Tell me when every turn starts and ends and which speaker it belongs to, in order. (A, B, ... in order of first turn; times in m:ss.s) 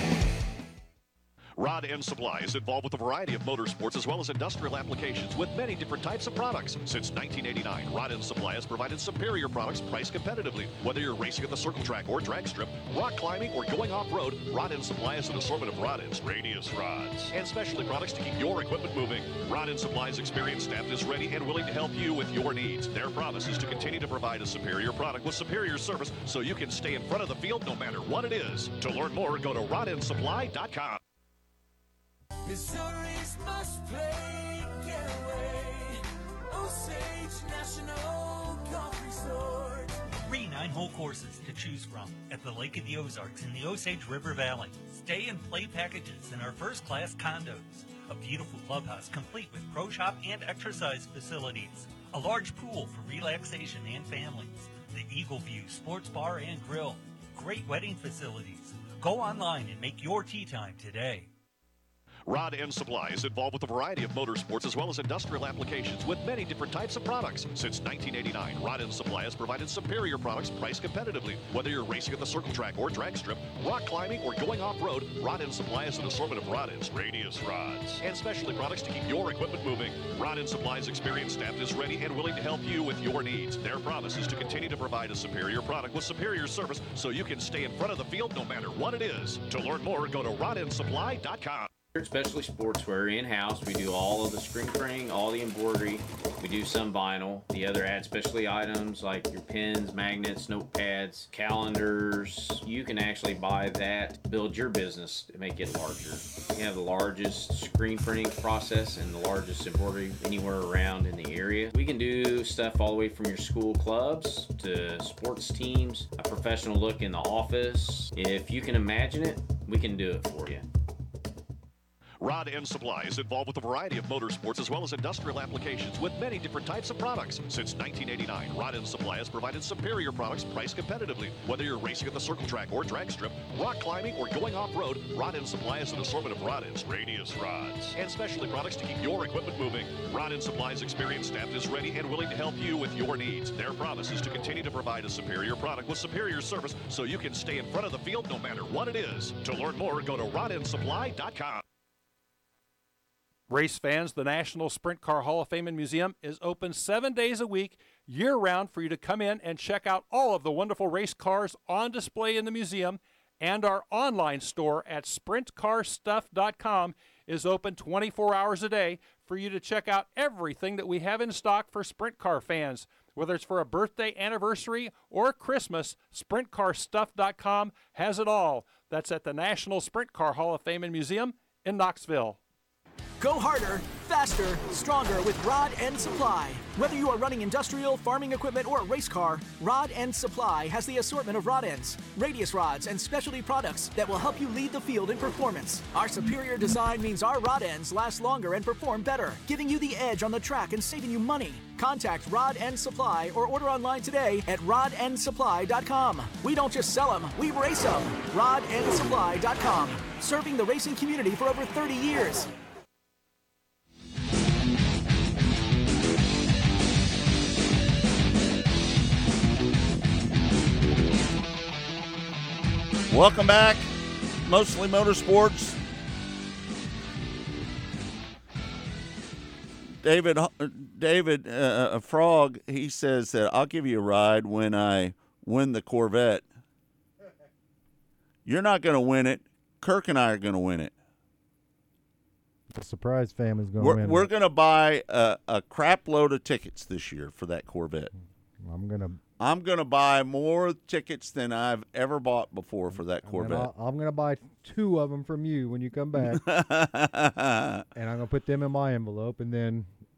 0:01.6-0:31.0 A
0:32.5-0:40.0 B
0:40.3-1:01.3 C
1:02.3-1:31.7 A
1:31.9-2:00.7 D
2:02.2-2:31.6 A
2:33.5-3:02.4 E
3:03.2-3:32.5 F
3:43.1-3:43.9 G
3:44.4-3:45.8 G
3:50.0-3:56.5 G
3:58.4-4:00.9 G
4:02.7-4:04.3 H
4:03.8-4:08.1 G
4:08.6-4:09.2 H
4:09.4-4:13.7 G
4:13.0-4:16.4 H
4:16.3-4:17.9 G
4:18.0-4:19.9 H